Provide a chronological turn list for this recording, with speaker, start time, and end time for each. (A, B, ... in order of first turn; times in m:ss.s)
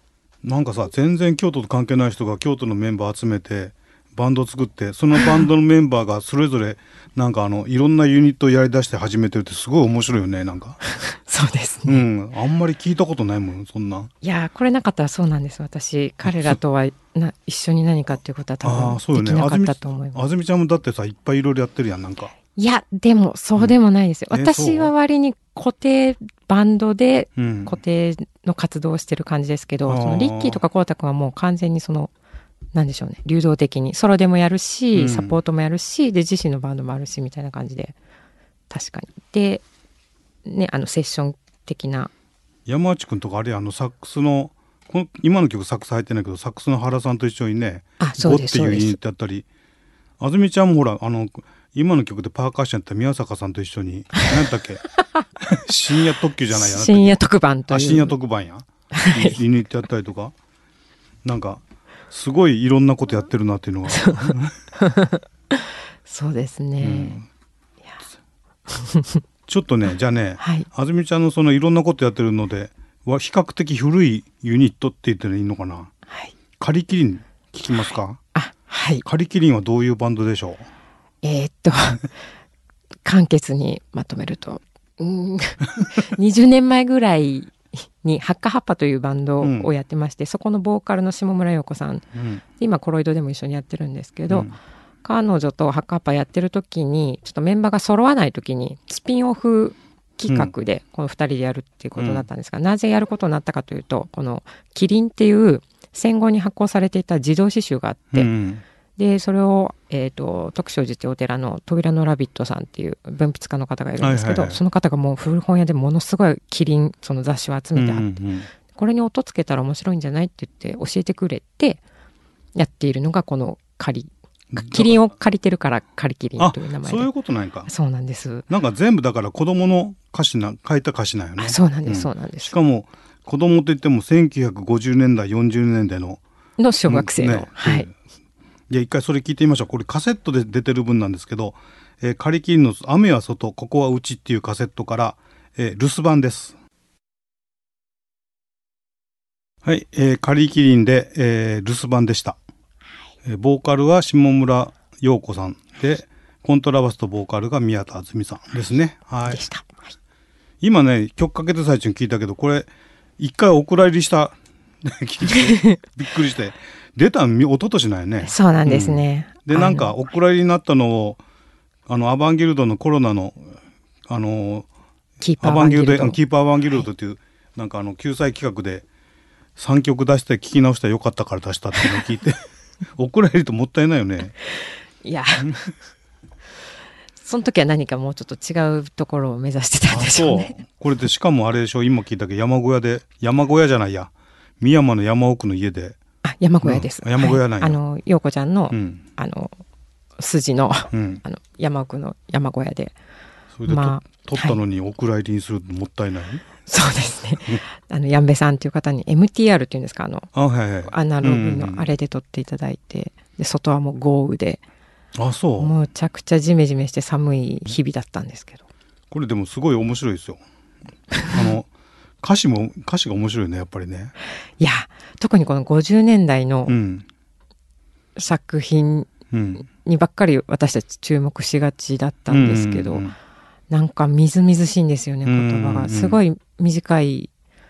0:00.4-0:10.8 A
0:10.9-0:12.0 B
0:11.9-0:14.1 A
0:14.2-0:20.2 B
0:16.2-0:16.6 A
0:18.6-0:22.3 A
0:22.5-0:32.1 B
0:24.3-0:24.9 A
0:27.4-0:27.8 A
0:29.9-0:30.6 A
0:32.7-0:38.0 B
0:35.0-0:35.4 A
0:38.7-0:39.6 B
0:40.4-0:42.1 B
0:42.7-0:49.5 A
0:48.0-0:49.0 B
0:50.2-0:54.8 A
0:55.4-0:57.2 A
0:56.5-0:58.1 B
0:57.7-1:00.3 A
0:58.9-0:59.4 B
1:01.2-1:04.5 A
1:03.9-1:07.2 B
1:06.8-1:07.3 A
1:08.7-1:09.2 B
1:09.5-1:15.9 A
1:10.4-1:10.7 B
1:16.1-1:16.3 B
1:16.6-1:18.2 A
1:18.3-1:19.0 B
1:19.0-1:20.7 A
1:21.2-1:22.1 B
1:23.0-1:34.5 B
1:29.4-1:29.7 A
1:32.1-1:32.4 A
1:34.3-1:34.6 A
1:35.0-1:48.3 B
1:42.0-1:42.3 A
1:48.1-1:48.6 A
1:49.0-1:58.1 B
1:54.0-1:54.6 A
1:57.8-1:58.5 A
1:58.7-2:01.8 B
2:02.6-2:07.1 B
2:04.5-2:05.0 A
2:06.4-2:07.7 A
2:07.7-2:08.5 B
2:08.5-2:16.2 A
2:11.4-2:12.6 B
2:16.6-2:17.9 B
2:16.9-2:17.9 A
2:18.7-2:26.6 A
2:29.6-2:32.4 A
2:33.2-2:39.4 A
2:39.3-2:39.9 B
2:40.6-2:42.7 A
2:43.2-2:51.2 A
2:45.3-2:45.8 B
2:48.2-2:49.9 B
2:51.9-2:53.6 A
2:54.1-2:54.7 A
2:55.2-2:56.2 B
2:55.4-2:58.9 A
2:59.6-3:02.4 A
3:03.0-3:04.4 A
3:04.6-3:05.5 B
3:05.4-3:05.7 A
3:07.2-3:10.6 B
3:09.9-3:16.0 A
3:16.2-3:19.6 B
3:16.6-3:17.8 A
3:18.7-3:19.0 A
3:20.2-3:23.0 B
3:20.9-3:21.2 A
3:23.5-3:26.5 A
3:23.7-3:24.6 B
3:26.7-3:30.3 B
3:30.3-3:31.9 A
3:30.8-3:34.6 B
3:35.2-3:35.7 A
3:35.6-3:38.6 B
3:39.1-3:40.4 A
3:41.3-3:41.7 A
3:42.2-3:44.1 A
3:44.6-3:46.8 B
3:46.7-3:47.1 A
3:48.2-3:53.0 B
3:49.3-3:49.7 A
3:52.3-3:53.2 A
3:53.7-3:57.3 B
3:55.2-3:56.2 A